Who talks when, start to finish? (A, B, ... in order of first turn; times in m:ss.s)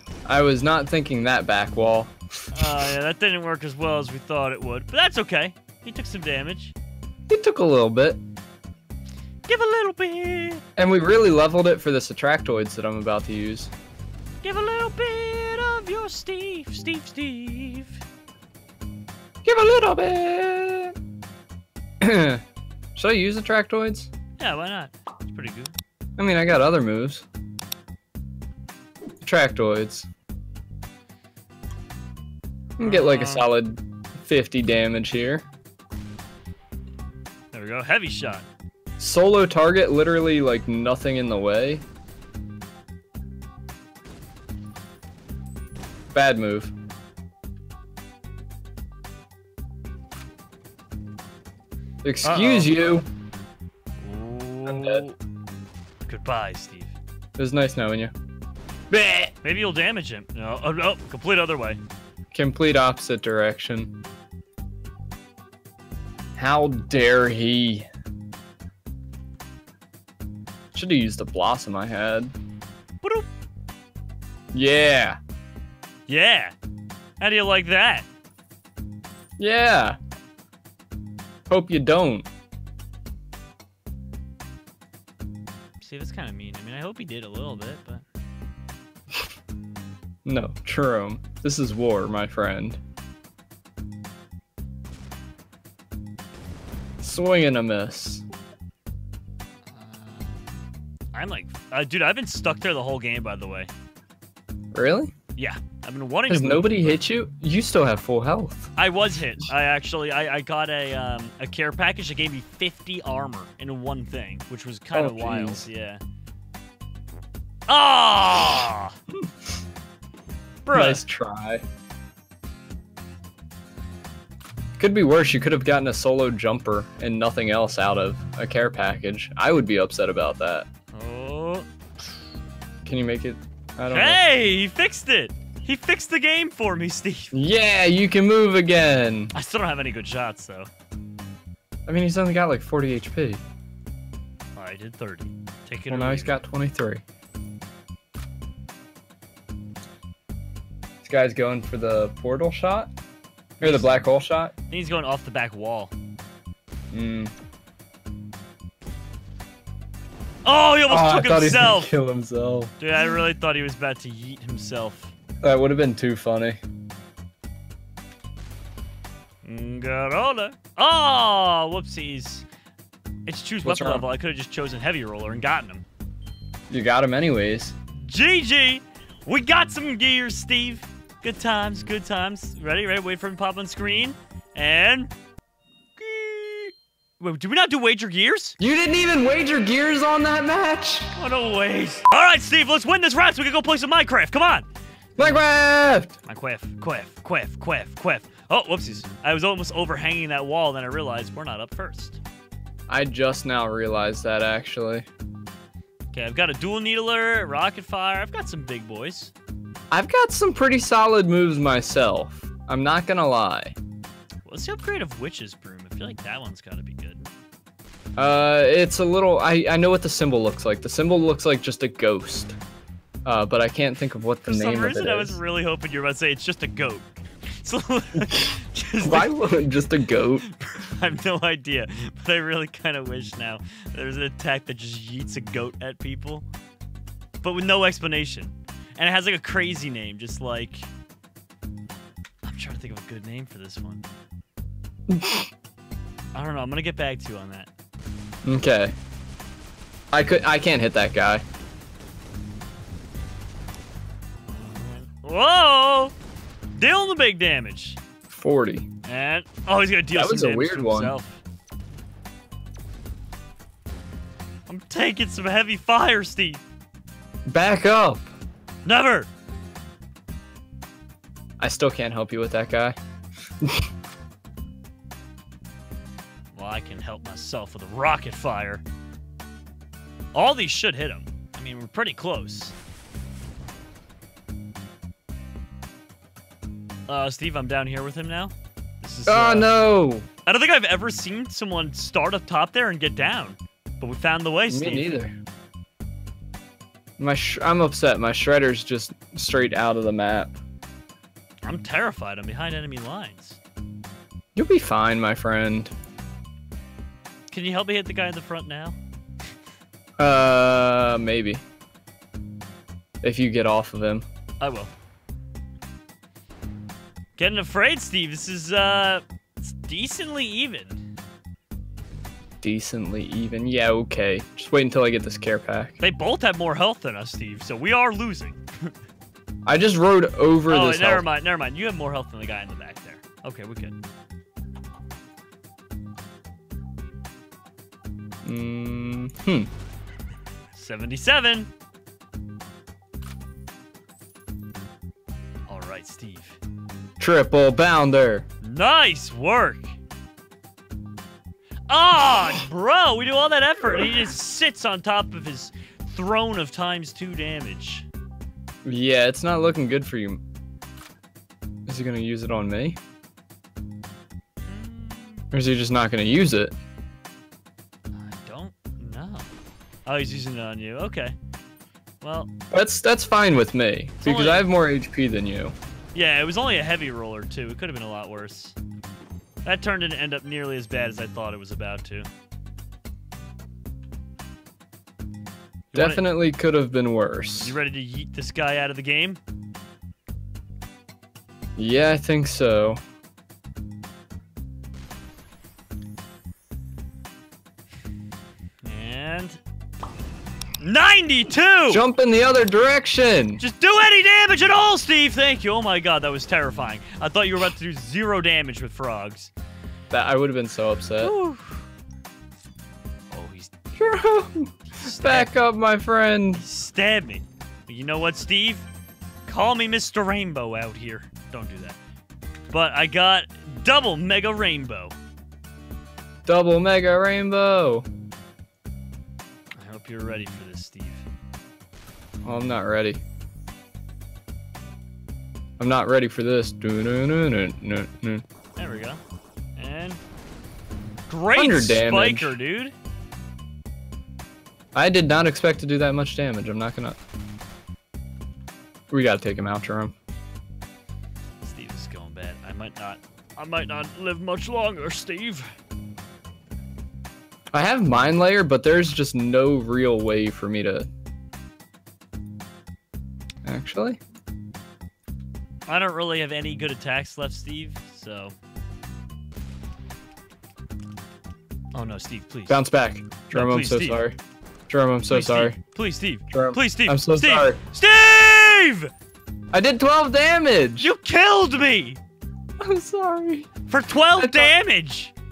0:00.2-0:02.9 A
0:02.5-0:06.7 B
0:07.3-0:08.2 A
0:09.5-0:10.6 B
0:10.8-0:13.7 A
0:14.4-0:18.0 B
0:19.4-0:20.9 A
0:22.0-0:22.4 A
0:23.0-0:24.1 A
0:24.4-0:25.7 B
0:26.2-0:27.2 A
0:29.2-0:30.1 A
0:32.8-0:35.4 A
0:32.8-0:33.5 B
0:37.5-0:38.4 B
0:39.0-0:41.8 A
0:46.1-0:46.7 A
0:52.0-0:53.1 A
0:52.2-0:52.8 B
0:54.0-0:55.2 B
0:54.7-0:55.0 A
0:56.0-0:56.9 B
0:57.4-0:58.1 A
0:58.9-0:59.3 A
0:59.4-1:01.8 B
1:02.3-1:04.0 A
1:06.4-1:07.9 A
1:10.7-1:12.3 A
1:14.5-1:15.2 A
1:16.1-1:16.5 B
1:17.2-1:18.1 B
1:19.4-1:20.0 A
1:21.5-1:22.3 A
1:25.8-1:28.0 B
1:30.2-1:32.8 A
1:37.0-1:38.2 A
1:39.7-1:40.5 B
1:41.1-1:43.7 B
1:44.7-1:45.1 A
1:45.4-1:47.0 B
1:46.3-1:48.7 A
1:48.8-1:56.0 B
1:54.9-1:55.6 A
1:57.7-1:59.0 B
2:00.6-2:01.0 B
2:00.7-2:01.6 A
2:04.8-2:10.7 A
2:10.9-2:11.7 B
2:12.8-2:14.2 A
2:13.9-2:17.3 B
2:17.3-2:19.3 A
2:19.3-2:20.7 B
2:21.9-2:23.4 A
2:24.6-2:26.4 B
2:25.9-2:27.0 A
2:31.0-2:32.9 A
2:33.6-2:34.0 B
2:33.6-2:34.5 A
2:34.7-2:35.9 B
2:36.9-2:37.3 A
2:40.4-2:41.9 B
2:40.9-2:42.7 A
2:42.8-2:45.1 B
2:45.4-2:46.6 A
2:49.4-2:52.4 B
2:53.2-2:55.8 B
2:53.6-2:54.0 A
2:56.7-2:57.8 A
2:58.0-3:05.1 B
3:06.0-3:08.6 B
3:08.6-3:11.1 A
3:11.2-3:14.7 B
3:15.2-3:16.2 A
3:16.2-3:22.2 B
3:22.9-3:25.1 A
3:26.1-3:29.3 B
3:29.9-3:33.8 A
3:34.4-3:37.3 B
3:38.2-3:42.6 A
3:43.2-3:45.4 A
3:44.4-3:49.4 B
3:48.2-3:50.5 A
3:50.4-3:56.4 B
3:57.4-4:00.9 B
4:02.4-4:04.1 B
4:05.1-4:05.5 A
4:06.3-4:07.7 B
4:08.4-4:08.9 A
4:10.1-4:11.4 A
4:14.5-4:16.1 B
4:16.8-4:18.0 B
4:18.3-4:18.8 A
4:19.0-4:21.4 B
4:20.1-4:21.2 A
4:24.7-4:26.6 B
4:27.5-4:28.3 A
4:28.8-4:29.3 B
4:31.6-4:33.0 A
4:36.5-4:38.8 B
4:40.3-4:42.7 B
4:47.1-4:49.8 B
4:49.3-4:50.3 A
4:50.4-4:55.2 B
4:54.7-4:55.4 A
4:57.2-5:00.6 A
5:01.6-5:03.6 B
5:04.6-5:05.9 A
5:07.5-5:09.0 B
5:10.2-5:11.6 A
5:13.2-5:14.2 A
5:14.6-5:14.9 B
5:17.4-5:21.0 B
5:22.6-5:26.0 A
5:26.0-5:28.9 B
5:29.7-5:31.3 A
5:30.7-5:34.0 B
5:38.4-5:39.7 A
5:40.7-5:41.7 B
5:45.7-5:46.6 B
5:47.2-5:48.4 A
5:48.6-5:50.0 B
5:51.9-5:58.1 B
5:58.8-6:00.4 A
6:01.9-6:03.0 A
6:04.7-6:05.4 B
6:05.5-6:06.8 A
6:08.1-6:09.5 B
6:10.1-6:11.4 B
6:12.2-6:12.5 B
6:12.7-6:15.7 A
6:14.2-6:14.7 B
6:16.1-6:18.8 B
6:19.6-6:22.3 B
6:25.9-6:26.3 B
6:25.9-6:27.8 A
6:27.6-6:29.4 B
6:31.8-6:33.0 A
6:38.8-6:39.6 B
6:40.8-6:42.0 B
6:41.9-6:43.6 A
6:43.6-6:49.5 B
6:50.1-6:51.3 A
6:51.2-6:51.8 B
6:53.3-6:53.7 B
6:53.9-6:56.6 A
6:54.8-6:55.5 B
6:56.5-6:58.9 B
6:59.4-7:02.0 B
7:02.7-7:05.2 B
7:06.4-7:08.1 A
7:09.7-7:11.2 B
7:12.4-7:13.2 A
7:15.8-7:18.4 A
7:18.8-7:19.2 B
7:19.8-7:20.2 B
7:21.3-7:22.9 B
7:21.6-7:22.6 A
7:24.9-7:27.2 A
7:29.1-7:30.2 A
7:31.6-7:35.7 B
7:37.7-7:41.1 A
7:43.6-7:44.2 A
7:45.9-7:48.5 B
7:51.9-7:52.8 B
7:52.7-7:54.4 A
7:53.5-7:54.2 B
7:54.9-7:55.8 A
7:55.3-7:59.1 B
7:56.5-7:57.8 A
7:59.7-8:01.1 A
8:01.0-8:02.2 B
8:02.8-8:03.7 A
8:03.9-8:05.3 B
8:04.4-8:04.7 A